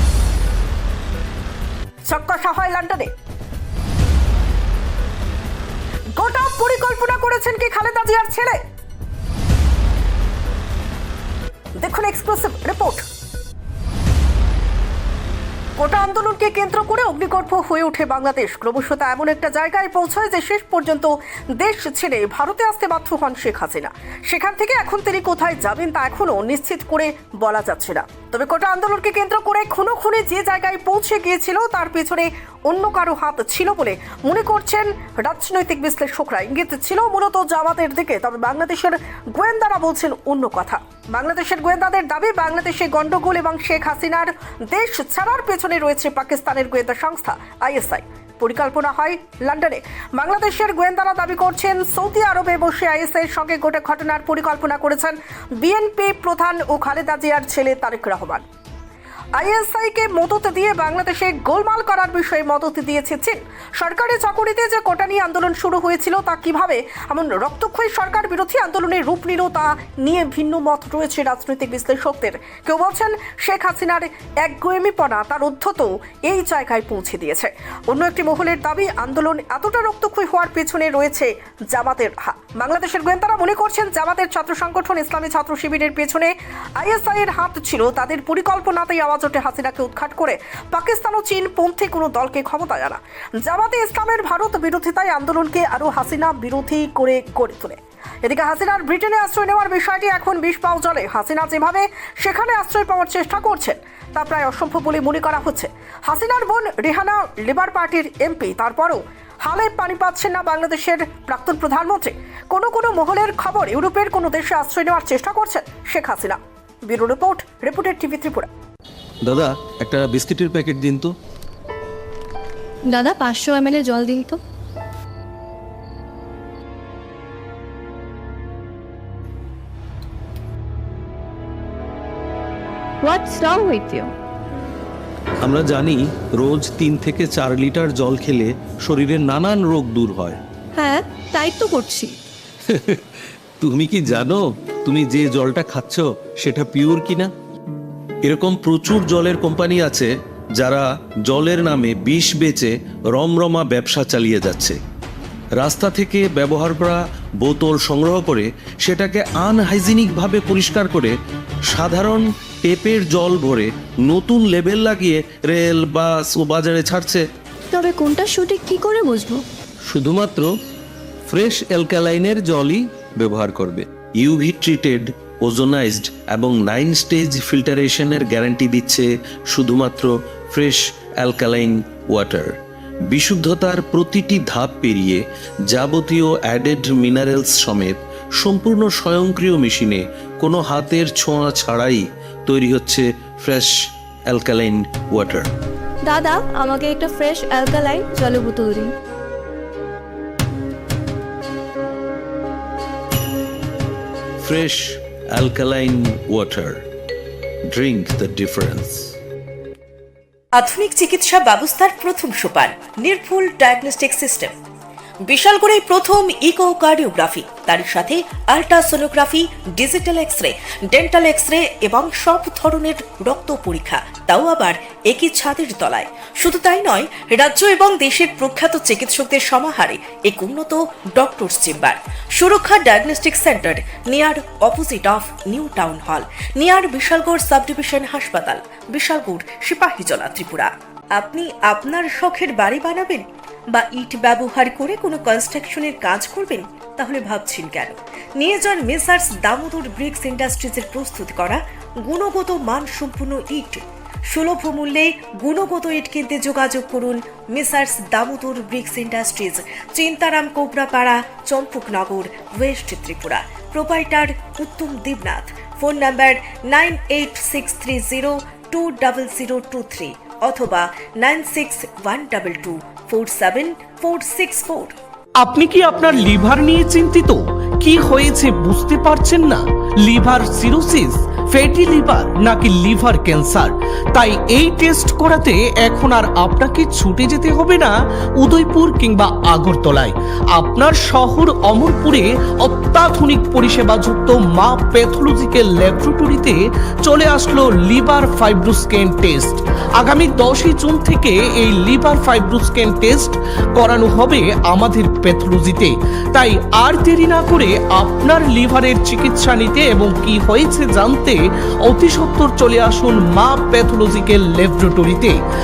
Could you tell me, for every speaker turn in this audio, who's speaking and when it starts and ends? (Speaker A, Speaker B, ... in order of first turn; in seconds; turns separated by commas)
Speaker A: 2.1-3.1, Speaker A: 6.2-8.6, Speaker A: 11.8-13.0, Speaker A: 15.8-58.4, Speaker A: 59.4-118.5, Speaker B: 119.2-121.1, Speaker C: 122.9-124.4, Speaker C: 133.0-134.1, Speaker B: 135.4-140.4, Speaker C: 140.8-142.2, Speaker B: 142.7-143.0, Speaker B: 143.6-147.3, Speaker B: 148.2-154.8, Speaker B: 155.6-161.2, Speaker B: 161.7-167.2, Speaker C: 167.7-169.4, Speaker B: 169.9-170.5, Speaker B: 171.3-182.6, Speaker B: 183.1-193.7, Speaker B: 194.3-195.5, Speaker C: 196.1-198.9, Speaker B: 204.4-206.8, Speaker B: 207.7-209.2, Speaker D: 210.6-214.5, Speaker D: 215.2-275.0, Speaker E: 275.4-315.4